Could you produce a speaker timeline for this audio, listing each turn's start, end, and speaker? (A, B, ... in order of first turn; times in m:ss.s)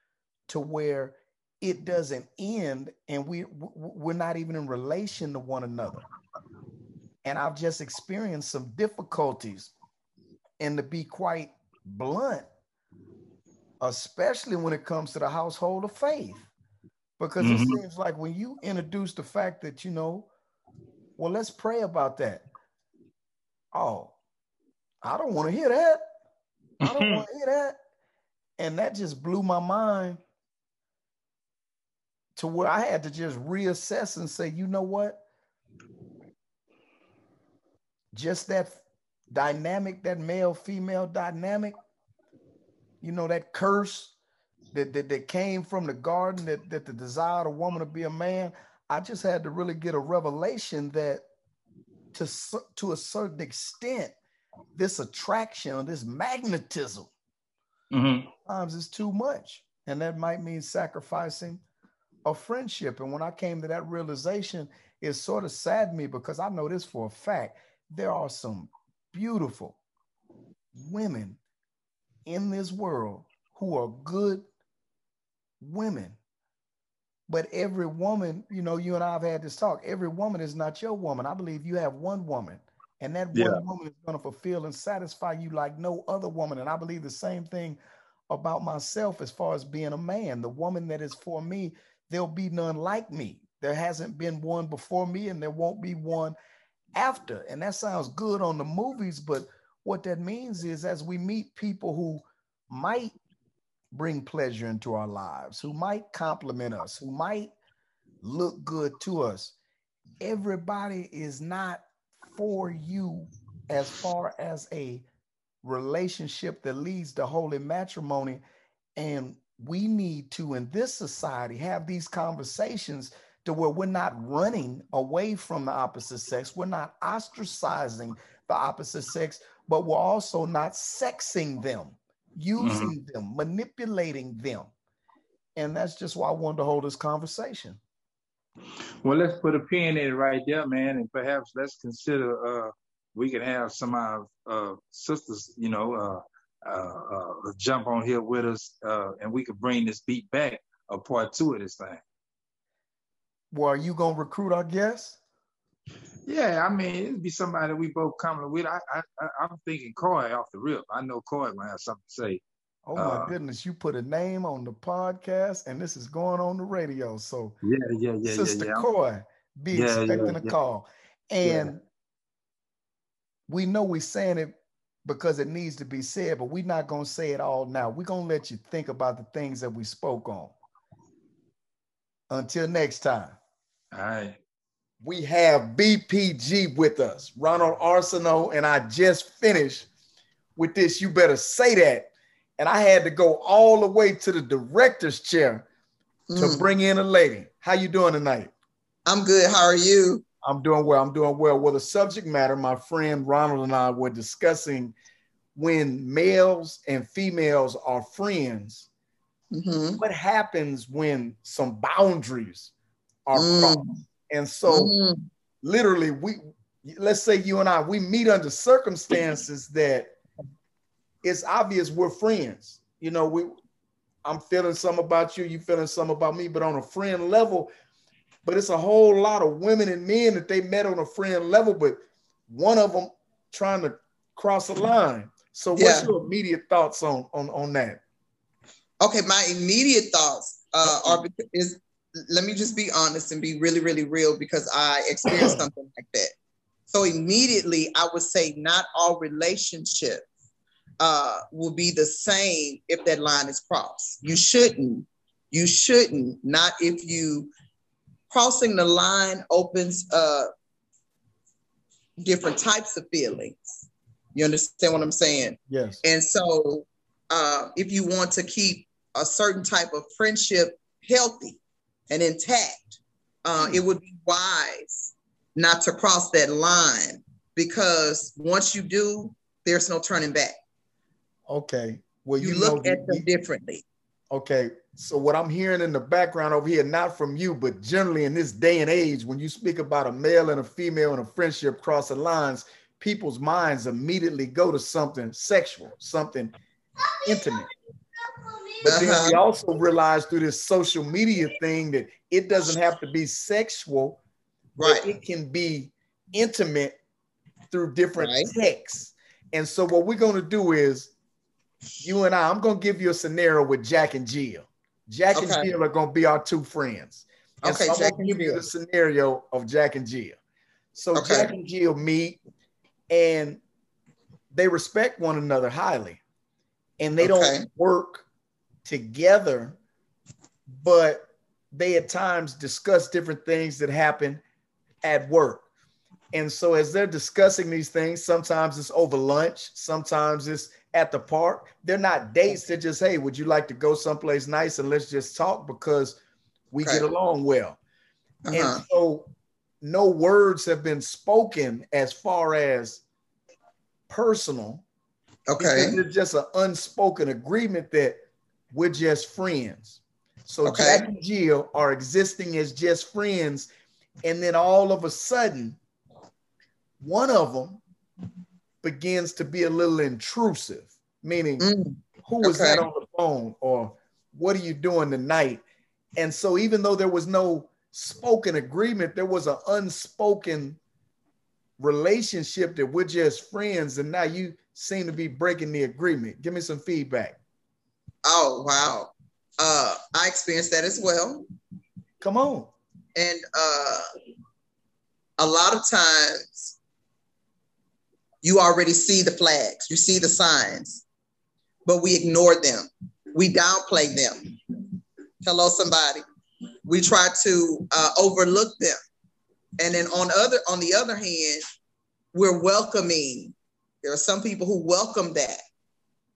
0:00.5-0:06.0 A
0:07.2-0:09.7 A
0:10.6-0:12.5 A
0:13.8-0:16.5 A
0:17.2-0:20.3 A
0:17.4-0:17.8 B
0:21.2-0:22.4 A
0:23.7-0:24.2 A
0:25.0-0:26.0 A
0:26.8-0:27.2 B
0:26.8-0:27.8 A
0:28.6-0:30.2 A
0:32.4-0:35.2 A
0:38.1-0:41.7 A
0:43.0-0:44.1 A
0:44.7-0:51.2 A
0:52.1-0:54.1 A
0:54.8-0:57.1 A
0:57.9-0:58.3 B
0:58.4-1:01.6 A
1:02.2-1:09.8 A
1:10.7-1:11.4 A
1:12.2-1:14.4 A
1:15.6-1:16.2 A
1:17.3-1:27.8 A
1:23.3-1:23.6 B
1:28.3-1:36.4 A
1:36.9-1:43.1 A
1:43.9-1:47.5 A
1:48.2-1:49.5 A
1:50.2-1:55.0 A
1:55.6-1:58.4 A
1:59.0-2:14.7 A
2:12.6-2:12.9 B
2:15.6-2:17.8 A
2:19.0-2:32.0 B
2:33.5-2:35.2 A
2:36.3-2:42.4 B
2:42.9-2:47.6 A
2:43.0-2:43.3 B
2:47.6-2:48.9 B
2:48.2-2:51.8 A
2:49.7-2:50.5 B
2:51.4-2:51.7 B
2:53.5-3:00.5 A
3:02.3-3:03.4 A
3:03.9-3:04.4 B
3:05.0-3:09.9 A
3:10.6-3:15.6 A
3:16.3-3:16.7 C
3:16.3-3:18.5 A
3:19.0-3:20.2 C
3:20.4-3:24.9 A
3:25.5-3:28.9 A
3:29.5-3:30.0 C
3:30.0-3:32.7 A
3:33.2-3:34.9 A
3:33.3-3:34.0 C
3:34.7-3:35.2 C
3:35.6-3:40.1 A
3:41.2-3:43.6 A
3:44.2-3:47.7 A
3:48.4-3:58.0 A
3:55.7-3:56.1 C
3:59.0-4:06.3 C
4:00.8-4:01.2 A
4:05.2-4:05.6 A
4:06.9-4:10.2 C
4:11.0-4:17.5 C
4:18.3-4:20.5 C
4:22.2-4:31.6 C
4:25.7-4:26.0 A
4:32.1-4:40.6 C
4:41.5-4:43.2 A
4:42.4-4:43.8 C
4:44.3-4:56.5 A
4:57.2-4:57.7 A
4:58.8-4:59.4 C
4:58.8-5:04.2 A
5:04.8-5:05.1 C
5:04.8-5:07.0 A
5:07.7-5:11.1 A
5:08.2-5:08.5 C
5:12.0-5:20.4 A
5:15.3-5:15.7 C
5:17.6-5:18.6 C
5:20.9-5:22.4 A
5:21.1-5:21.5 C
5:23.1-5:23.6 A
5:24.5-5:26.2 A
5:27.0-5:28.2 A
5:27.2-5:27.6 C
5:28.8-5:29.8 A
5:30.8-5:34.4 A
5:35.0-5:35.6 A
5:36.3-5:46.2 A
5:46.7-5:47.8 A
5:48.4-5:48.8 C
5:48.5-5:49.3 A
5:49.8-5:53.0 A
5:54.1-5:54.8 A
5:55.5-5:56.0 C
5:55.6-5:58.2 A
5:58.7-6:03.7 A
6:00.6-6:01.1 C
6:04.2-6:05.8 A
6:07.0-6:07.8 A
6:08.8-6:11.7 A
6:11.6-6:12.8 C
6:12.2-6:15.6 A
6:16.2-6:20.8 A
6:21.8-6:27.4 A
6:28.2-6:31.4 C
6:32.2-6:32.7 A
6:33.1-6:34.0 C
6:35.4-6:36.8 C
6:38.4-6:41.0 C
6:41.8-6:44.5 C
6:45.4-6:46.2 C
6:46.8-6:49.0 C
6:49.8-6:51.6 C
6:52.3-6:55.6 C